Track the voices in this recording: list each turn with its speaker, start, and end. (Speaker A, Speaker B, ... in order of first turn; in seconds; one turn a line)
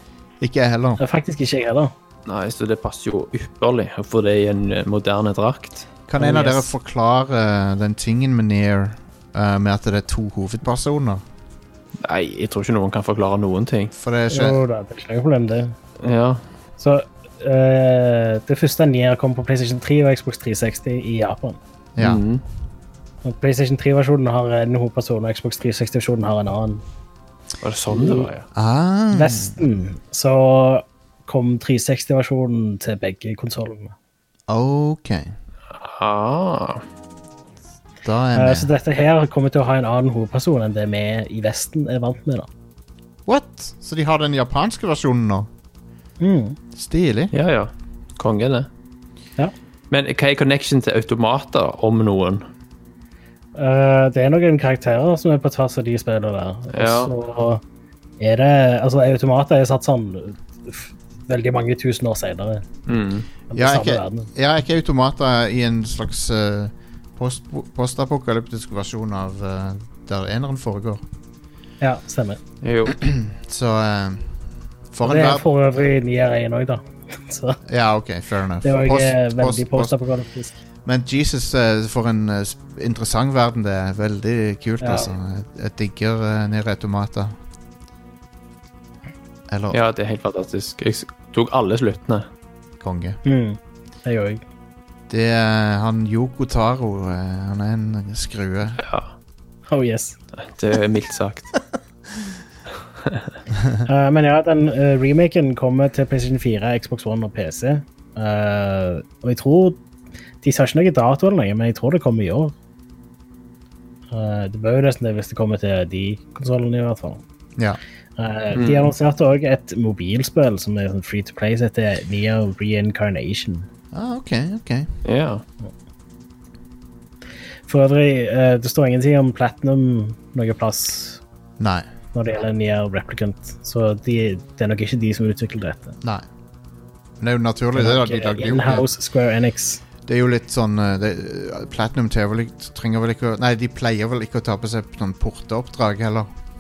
Speaker A: 0.4-1.0
Speaker B: 1.0-1.9
Speaker C: 2.3-5.9
Speaker A: 6.1-11.2
Speaker B: 6.2-6.7
Speaker C: 12.0-13.9
Speaker A: 13.9-14.6
Speaker B: 14.3-15.8
Speaker C: 16.0-16.4
Speaker B: 16.8-21.6
Speaker A: 22.0-22.2
Speaker C: 22.0-22.4
Speaker B: 23.2-26.8
Speaker C: 27.6-28.4
Speaker B: 27.9-28.3
Speaker A: 28.5-29.6
Speaker B: 29.1-33.9
Speaker A: 34.5-35.3
Speaker C: 35.7-36.9
Speaker A: 38.0-38.7
Speaker B: 38.4-42.5
Speaker A: 43.3-45.5
Speaker B: 46.2-46.6
Speaker A: 46.8-47.3
Speaker C: 47.3-48.7
Speaker C: 49.9-52.5
Speaker B: 53.5-57.6
Speaker C: 56.7-57.1
Speaker B: 58.2-62.7
Speaker C: 62.9-63.3
Speaker B: 63.5-64.3
Speaker A: 63.5-71.0
Speaker B: 71.8-72.4
Speaker C: 72.6-73.0
Speaker A: 72.9-74.3
Speaker A: 74.9-75.5
Speaker B: 75.0-77.6
Speaker A: 77.7-79.9
Speaker B: 78.6-80.6
Speaker A: 80.8-87.4
Speaker B: 84.8-85.1
Speaker A: 89.5-89.8
Speaker C: 89.7-92.3
Speaker A: 92.8-93.2
Speaker B: 93.2-94.4
Speaker A: 95.1-98.8
Speaker C: 98.8-99.1
Speaker B: 99.7-100.2
Speaker C: 100.4-101.5
Speaker B: 103.8-109.8
Speaker B: 110.4-112.5
Speaker B: 114.1-117.2
Speaker B: 118.2-123.7
Speaker C: 118.5-118.9
Speaker A: 123.9-124.9
Speaker C: 125.0-125.4
Speaker B: 127.7-131.2
Speaker A: 131.6-131.9
Speaker B: 132.1-135.9
Speaker A: 137.2-138.9
Speaker B: 137.8-139.8
Speaker A: 140.1-146.3